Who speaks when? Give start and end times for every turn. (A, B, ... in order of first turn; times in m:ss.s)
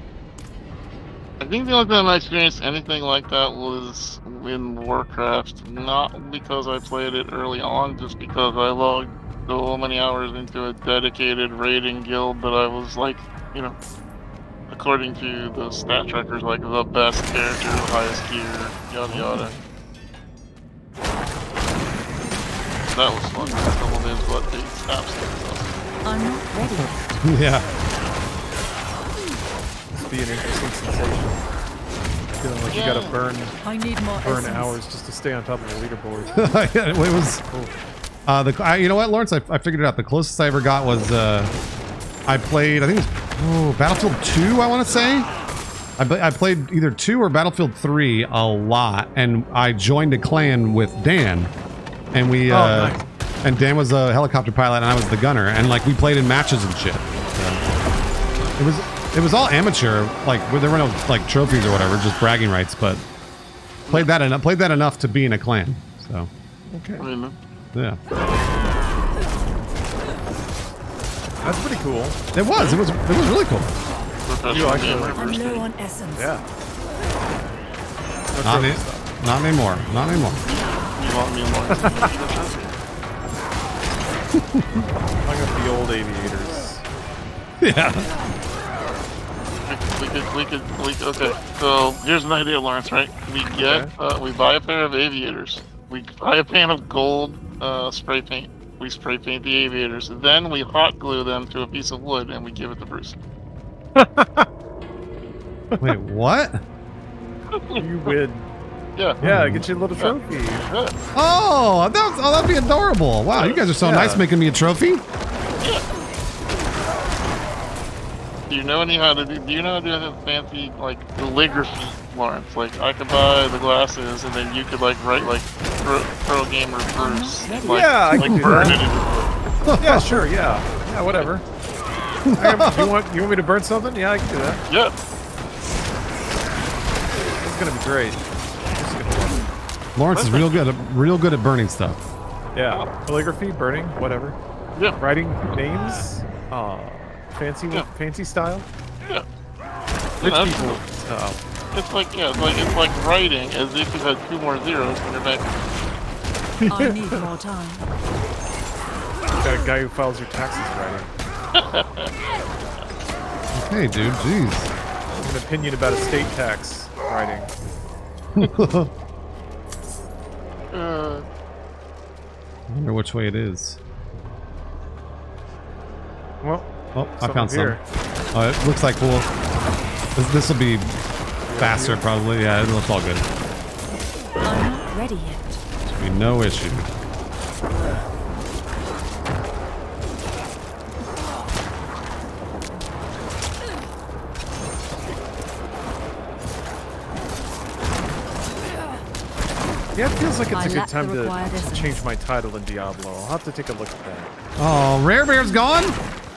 0:01.4-0:13.8 A
0:14.7-0:19.6 A
0:19.1-0:19.4 B
0:22.9-0:25.8 A
0:26.0-0:26.9 C
0:26.6-0:27.0 B
0:27.2-0:27.7 D
0:29.9-0:31.4 B
0:32.4-0:33.6 B
0:32.7-0:33.2 A
0:33.6-0:34.8 C
0:34.2-0:36.5 B
0:36.4-0:37.4 D
0:38.3-0:41.5 D
0:42.3-0:45.3 D
0:46.0-0:51.5 D
0:52.1-0:57.6 D
0:52.5-0:53.0 B
0:58.4-0:58.9 A
0:58.6-1:03.0 D
1:03.9-1:06.3 D
1:06.7-1:07.1 B
1:07.0-1:07.3 A
1:07.7-1:08.0 D
1:11.4-1:12.2 B
1:12.3-1:13.8 D
1:12.6-1:12.8 A
1:14.3-1:15.7 A
1:14.5-1:15.2 B
1:15.2-1:16.4 C
1:16.2-1:16.4 B
1:18.3-1:19.1 B
1:18.4-1:20.4 D
1:20.4-1:22.7 A
1:21.8-1:22.1 B
1:24.4-1:24.9 D
1:25.2-1:26.8 B
1:27.6-1:28.1 D
1:29.7-1:43.2 A
1:33.6-1:33.9 B
1:44.0-1:44.5 B
1:45.8-1:46.6 D
1:47.5-1:48.2 A
1:47.8-1:48.5 B
1:49.0-1:49.2 A
1:49.2-1:49.7 D
1:49.2-1:50.6 B
1:50.0-1:51.0 A
1:51.2-1:55.0 D
1:53.8-1:54.2 B
1:58.5-2:09.3 A
2:07.0-2:07.9 C
2:07.6-2:08.8 B
2:08.1-2:08.8 D
2:09.6-2:10.3 D
2:09.8-2:11.4 B
2:12.2-2:12.9 D
2:12.4-2:14.6 B
2:14.7-2:15.0 A
2:17.4-2:18.2 B
2:18.8-2:19.5 B
2:20.0-2:22.0 D
2:20.1-2:20.6 A
2:22.5-2:24.4 B
2:25.0-2:28.7 B
2:25.5-2:26.0 D
2:30.2-2:30.8 A
2:30.2-2:31.4 B
2:31.7-2:35.5 A
2:36.6-2:37.3 B
2:36.7-2:37.8 C
2:39.4-2:41.1 B
2:41.6-2:42.1 A
2:43.5-2:44.7 D
2:45.2-2:47.5 B
2:48.4-2:48.9 D
2:48.4-2:48.8 A
2:50.7-2:51.2 A
2:52.7-2:53.8 D
2:56.4-2:57.8 B
2:56.9-2:57.8 D
2:58.3-2:59.3 D
3:00.2-3:01.0 D
3:01.5-3:02.0 B
3:01.5-3:03.3 D
3:04.4-3:05.6 C
3:05.9-3:06.9 D
3:20.0-3:24.3 B
3:20.5-3:22.0 C
3:24.6-3:26.0 D